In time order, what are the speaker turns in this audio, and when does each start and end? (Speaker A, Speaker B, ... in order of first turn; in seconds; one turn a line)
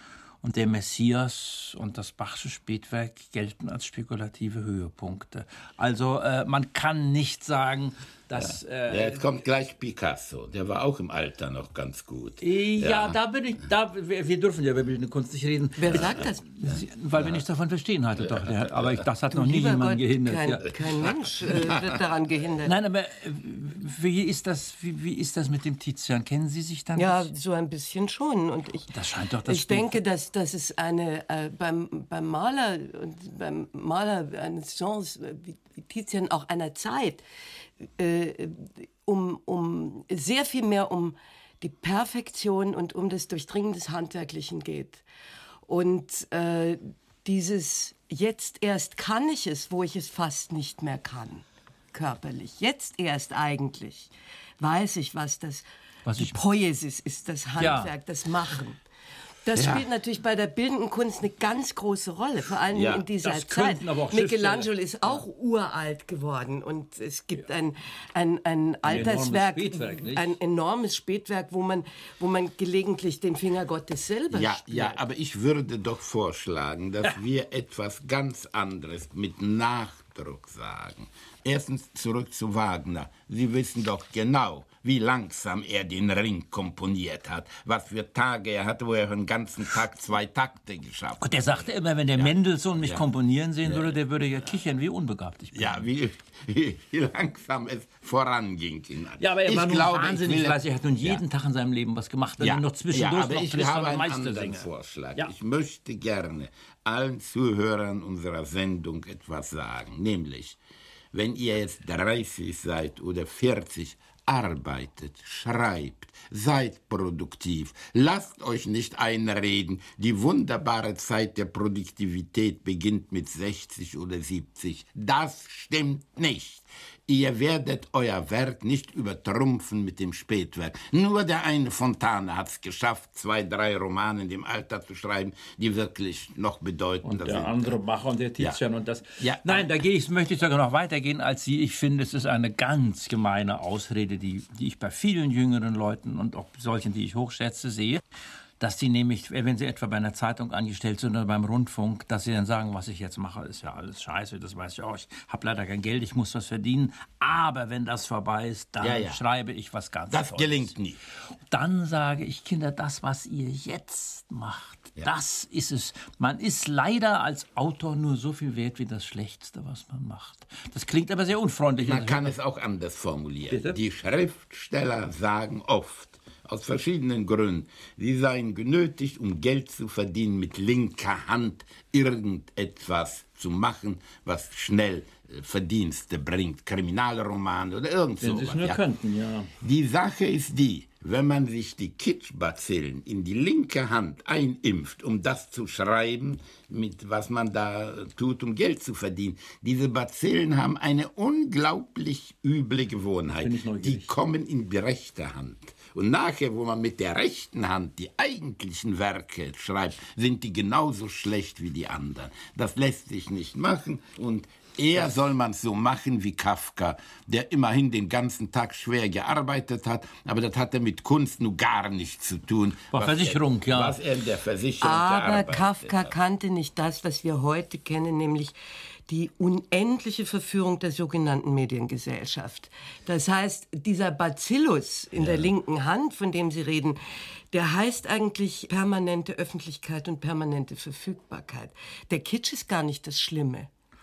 Speaker A: 0.4-9.2
Speaker B: 8.4-13.2
Speaker A: 12.4-20.7
Speaker C: 15.8-16.4
Speaker B: 15.9-17.4
Speaker B: 18.3-19.0
Speaker C: 19.3-22.7
Speaker B: 21.0-21.9
Speaker A: 22.6-27.3
Speaker C: 26.9-28.9
Speaker A: 28.9-30.0
Speaker C: 29.5-37.2
Speaker C: 38.0-45.0
Speaker C: 45.7-58.8
Speaker A: 56.0-56.4
Speaker A: 57.6-57.9
Speaker C: 59.4-75.0
Speaker B: 59.5-59.8
Speaker B: 62.7-63.1
Speaker A: 63.2-65.2
Speaker A: 68.8-70.3
Speaker B: 74.3-93.0
Speaker A: 91.2-95.8
Speaker B: 93.6-94.0
Speaker B: 95.5-101.2
Speaker A: 99.2-105.3
Speaker B: 102.4-110.6
Speaker B: 111.1-137.8
Speaker A: 137.0-148.0
Speaker B: 139.2-139.7
Speaker A: 148.6-160.7
Speaker B: 158.8-159.2
Speaker B: 160.1-161.0
Speaker A: 161.5-172.3
Speaker B: 171.8-188.8
Speaker A: 173.5-173.8
Speaker A: 188.2-189.5
Speaker B: 189.6-226.1
Speaker A: 203.4-204.1
Speaker A: 222.9-224.0
Speaker C: 224.8-228.5
Speaker C: 229.1-237.0
Speaker B: 235.2-235.5
Speaker C: 237.5-243.7